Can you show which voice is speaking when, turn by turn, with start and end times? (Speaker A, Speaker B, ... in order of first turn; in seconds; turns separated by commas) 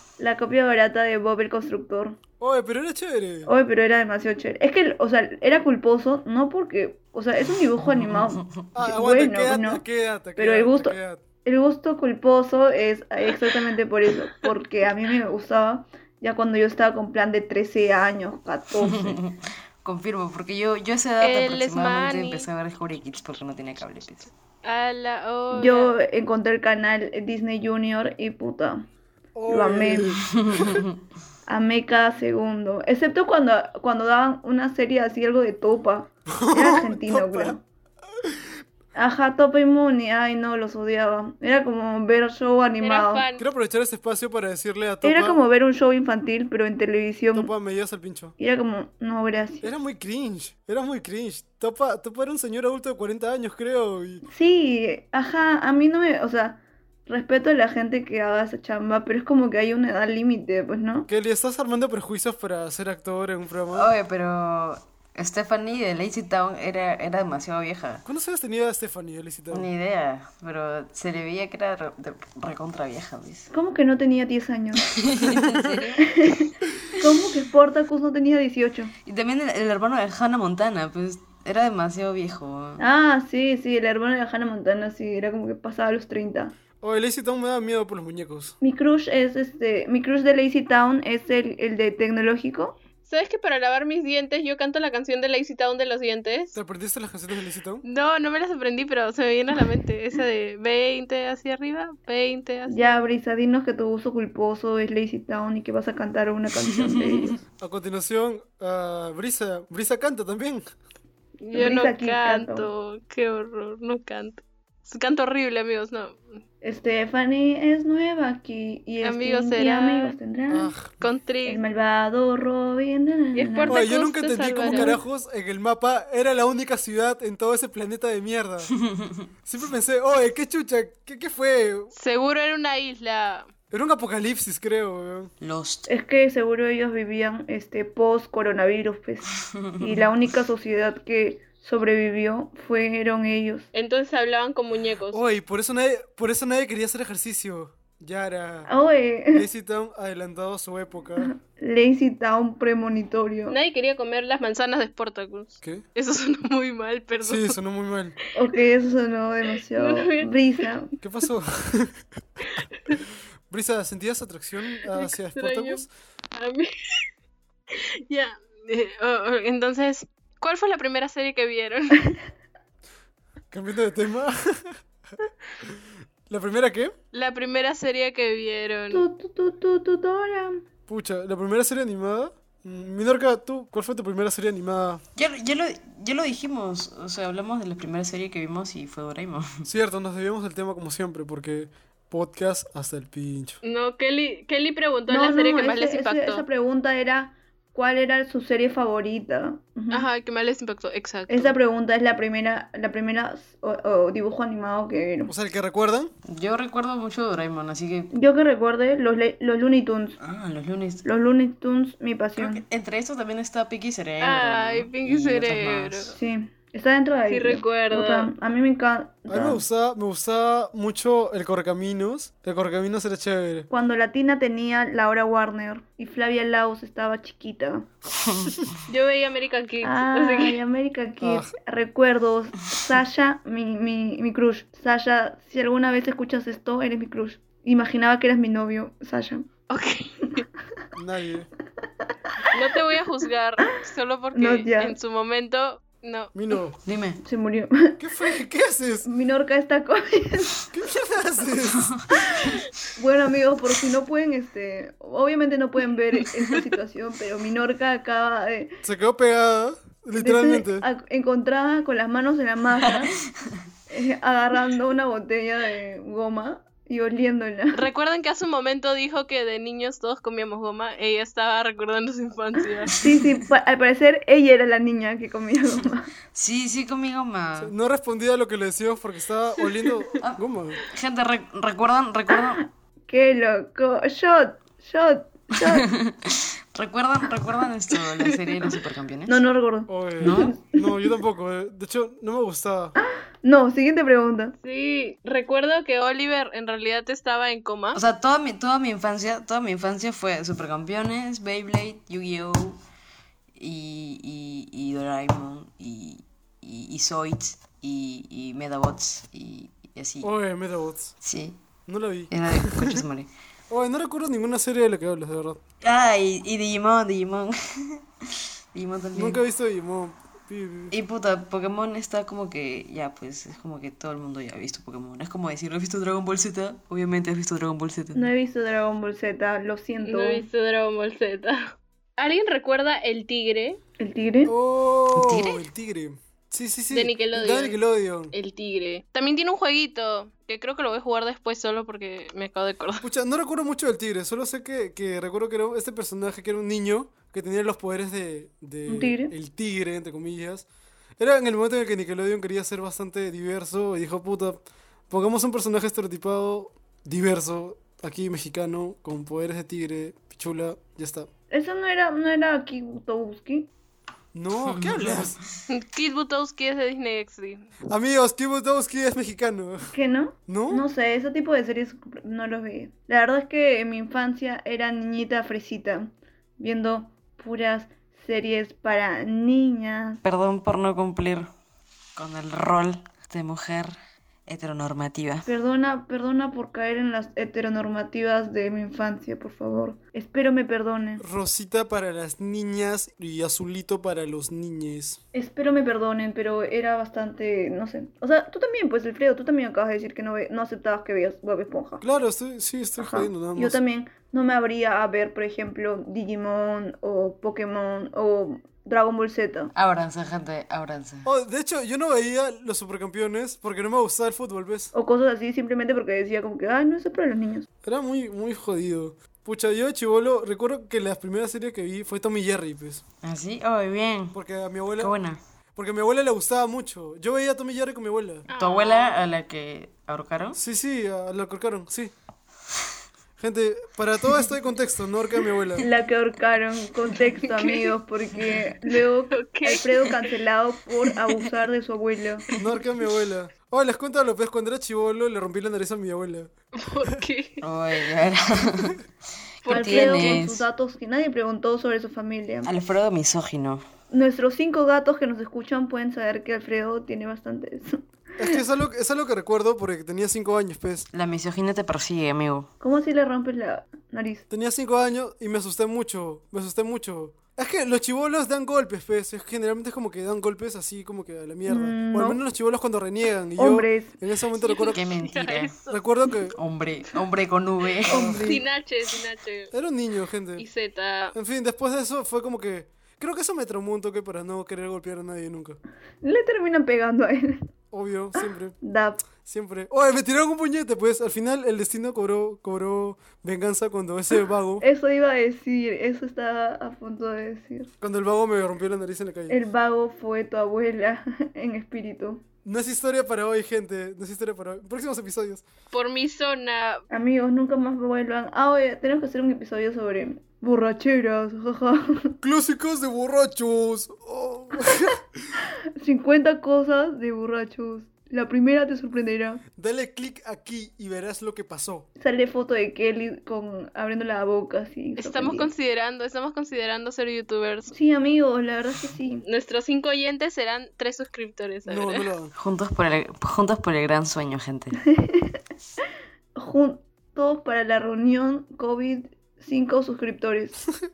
Speaker A: 0.2-2.2, Speaker B: 2.4-3.5, Speaker A: 3.5-9.8, Speaker B: 8.7-11.2, Speaker A: 10.3-19.2, Speaker C: 18.8-24.3, Speaker D: 21.2-22.5, Speaker D: 24.6-25.9, Speaker A: 25.5-28.9, Speaker B: 29.3-30.8, Speaker A: 29.5-30.1, Speaker C: 30.3-30.9, Speaker A: 31.5-37.6, Speaker B: 36.3-37.6, Speaker A: 38.9-43.2, Speaker D: 42.8-43.4, Speaker B: 43.4-45.4, Speaker A: 45.0-47.5, Speaker B: 47.3-48.3, Speaker A: 48.4-49.7, Speaker B: 49.6-54.2, Speaker A: 54.3-61.1, Speaker B: 61.1-63.9, Speaker C: 63.7-68.0, Speaker B: 68.0-69.7, Speaker C: 69.5-73.5, Speaker A: 73.5-74.9, Speaker C: 74.9-76.1, Speaker B: 75.2-75.8, Speaker A: 76.0-78.9, Speaker C: 79.0-82.8, Speaker A: 82.8-86.5, Speaker B: 86.8-88.5, Speaker A: 88.6-92.8, Speaker D: 93.1-96.6, Speaker B: 96.5-97.8, Speaker D: 97.8-103.1, Speaker A: 102.7-107.4, Speaker C: 106.8-107.1, Speaker B: 107.6-110.7, Speaker D: 111.4-116.2, Speaker A: 111.5-112.7, Speaker A: 116.6-120.7, Speaker D: 119.0-120.2, Speaker B: 120.5-121.0, Speaker D: 121.0-121.6, Speaker A: 121.4-123.8, Speaker D: 123.3-124.9, Speaker B: 123.7-128.7, Speaker A: 124.6-125.0, Speaker C: 128.8-129.2, Speaker B: 129.4-131.9, Speaker D: 131.9-133.5, Speaker B: 133.7-135.3, Speaker C: 135.4-135.9, Speaker A: 135.9-143.7, Speaker D: 143.7-145.2, Speaker B: 145.1-148.7, Speaker A: 148.7-149.4, Speaker B: 149.3-151.3, Speaker A: 151.2-153.6, Speaker D: 153.5-157.6, Speaker B: 157.2-158.2, Speaker A: 158.3-160.9, Speaker D: 159.7-160.3, Speaker B: 161.0-162.4, Speaker D: 162.6-163.0, Speaker B: 163.5-165.9, Speaker D: 164.8-167.0, Speaker D: 167.7-172.2, Speaker B: 173.5-174.8, Speaker B: 175.6-176.9, Speaker D: 177.1-179.0, Speaker A: 178.9-180.6, Speaker B: 180.9-185.0, Speaker C: 185.2-189.7, Speaker B: 189.6-193.6, Speaker D: 193.6-196.4, Speaker A: 195.1-200.1, Speaker D: 199.9-201.6, Speaker A: 201.3-205.3, Speaker B: 205.3-206.1, Speaker C: 206.3-208.1, Speaker A: 208.1-210.2, Speaker C: 210.2-211.0, Speaker A: 211.0-212.6, Speaker C: 212.4-216.1, Speaker D: 214.2-216.2, Speaker A: 216.1-219.6, Speaker D: 217.3-218.3, Speaker B: 219.3-223.7, Speaker A: 223.7-227.9, Speaker C: 228.2-228.6, Speaker D: 228.9-230.6, Speaker A: 229.8-239.5, Speaker B: 231.2-231.5, Speaker D: 239.7-240.4, Speaker B: 240.9-241.5, Speaker D: 242.5-246.3, Speaker A: 244.3-244.9, Speaker B: 246.3-246.8, Speaker C: 246.8-247.2, Speaker A: 247.2-248.0, Speaker B: 248.0-249.1, Speaker A: 249.0-250.6, Speaker B: 250.7-251.8, Speaker C: 251.7-252.0, Speaker A: 252.3-258.8, Speaker B: 258.8-260.9, Speaker A: 260.2-263.2, Speaker A: 263.9-267.8, Speaker D: 267.7-272.9, Speaker C: 272.9-273.3, Speaker A: 273.0-276.1, Speaker C: 276.3-277.7, Speaker B: 277.6-280.8, Speaker C: 280.2-282.6, Speaker A: 283.1-285.9, Speaker C: 285.7-289.4, Speaker D: 288.2-288.7, Speaker A: 289.3-290.8, Speaker B: 289.9-292.9, Speaker C: 290.2-290.6, Speaker A: 293.0-294.6, Speaker D: 294.6-298.0, Speaker C: 297.9-302.8, Speaker C: 303.6-310.3, Speaker B: 310.2-311.1, Speaker C: 311.2-311.6, Speaker B: 311.9-313.0, Speaker C: 312.3-313.3, Speaker B: 313.7-315.6, Speaker C: 315.8-318.0, Speaker C: 318.7-319.4, Speaker B: 319.1-320.9, Speaker C: 320.9-328.3, Speaker A: 328.1-330.5, Speaker D: 330.0-333.8, Speaker A: 334.0-334.5, Speaker B: 334.4-338.3, Speaker C: 335.1-335.6, Speaker D: 336.9-337.8, Speaker D: 338.3-343.0, Speaker B: 343.0-350.7, Speaker A: 348.9-349.3, Speaker B: 351.2-361.3, Speaker A: 361.5-363.7, Speaker B: 364.3-365.4, Speaker C: 364.6-365.4, Speaker D: 365.7-367.7, Speaker B: 367.9-369.9, Speaker A: 369.9-380.2, Speaker B: 370.5-370.9, Speaker C: 380.2-381.5, Speaker C: 382.1-383.9, Speaker C: 384.5-385.5, Speaker A: 385.4-391.2, Speaker B: 391.2-395.2, Speaker A: 395.3-402.0, Speaker B: 402.0-403.8, Speaker A: 403.0-409.7, Speaker C: 409.7-411.3, Speaker B: 411.2-414.9, Speaker A: 414.9-417.7, Speaker B: 417.8-423.0, Speaker C: 423.2-424.4, Speaker B: 424.3-425.2, Speaker C: 425.0-425.4, Speaker B: 425.8-428.4, Speaker D: 428.5-429.2, Speaker C: 428.6-430.6, Speaker B: 430.5-432.1, Speaker B: 433.4-435.9, Speaker A: 435.8-442.4, Speaker D: 437.4-437.9, Speaker D: 439.3-440.3, Speaker B: 442.6-446.5, Speaker D: 446.8-447.6, Speaker C: 447.6-449.0, Speaker D: 449.6-450.4, Speaker C: 449.6-450.7, Speaker A: 449.7-452.7, Speaker C: 452.6-453.8, Speaker A: 454.1-458.6, Speaker B: 458.4-461.1, Speaker C: 461.1-462.7, Speaker A: 462.8-464.4, Speaker B: 464.5-475.0, Speaker A: 471.6-472.4, Speaker A: 473.6-474.2, Speaker D: 474.6-476.0, Speaker C: 474.9-475.7, Speaker B: 475.9-476.6, Speaker C: 476.5-478.4, Speaker B: 478.1-478.5, Speaker A: 478.1-478.6, Speaker D: 478.4-479.7, Speaker B: 479.7-480.6, Speaker D: 480.6-481.3, Speaker B: 481.3-485.8, Speaker A: 486.2-487.6, Speaker B: 487.9-488.8, Speaker A: 488.8-489.2, Speaker B: 489.4-494.8, Speaker A: 494.8-497.9, Speaker B: 498.0-499.6, Speaker A: 499.5-502.4, Speaker B: 502.6-505.6, Speaker D: 505.9-507.0, Speaker A: 507.1-512.4, Speaker B: 512.4-515.2, Speaker A: 516.0-519.6, Speaker B: 519.8-522.1, Speaker A: 522.2-525.7, Speaker D: 525.2-527.9, Speaker A: 527.9-529.5, Speaker D: 529.4-532.3, Speaker B: 531.9-532.5, Speaker C: 532.5-535.0, Speaker A: 535.1-535.6, Speaker A: 536.5-540.8